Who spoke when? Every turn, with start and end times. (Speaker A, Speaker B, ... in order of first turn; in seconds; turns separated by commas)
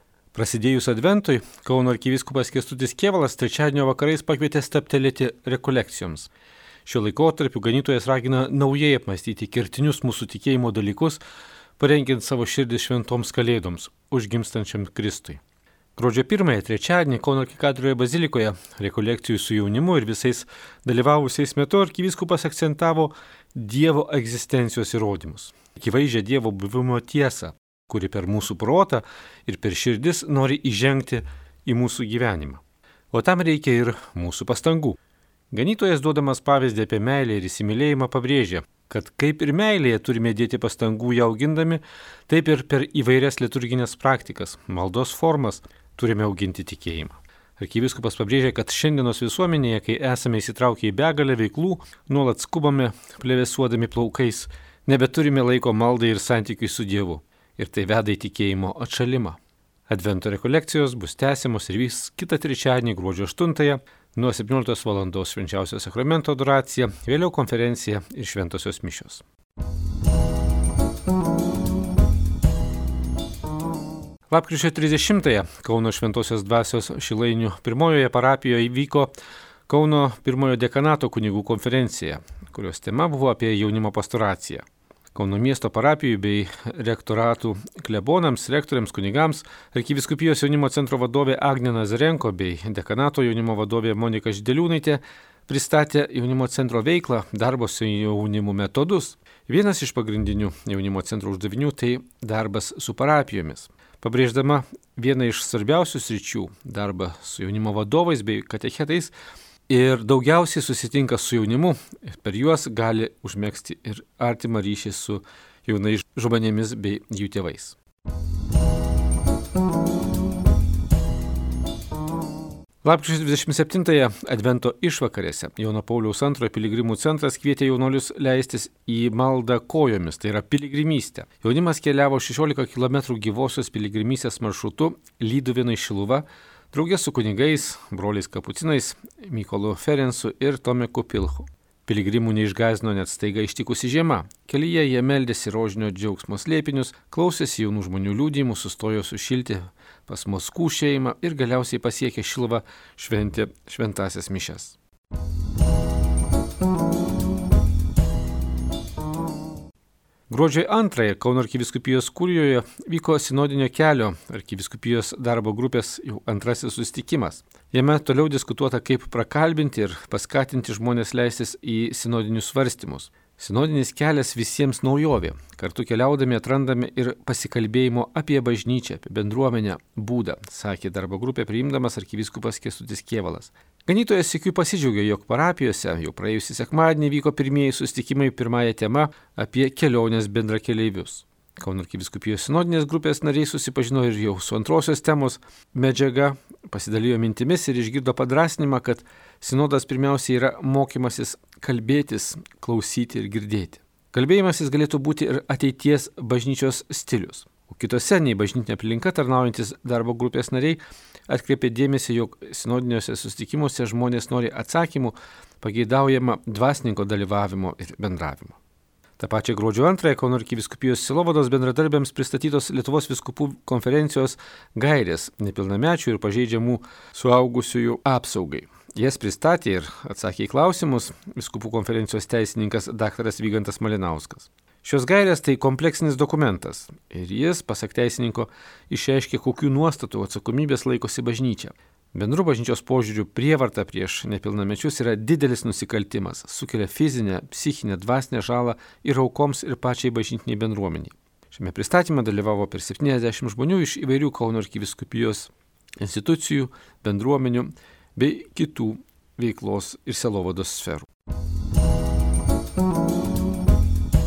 Speaker A: 0.3-6.3, Speaker A: 6.9-11.2, Speaker A: 11.8-15.4, Speaker A: 16.0-35.0, Speaker A: 35.5-69.2, Speaker A: 74.3-79.1, Speaker A: 79.7-109.1, Speaker A: 109.7-117.8, Speaker A: 122.8-154.8, Speaker A: 160.3-218.6, Speaker A: 219.2-261.1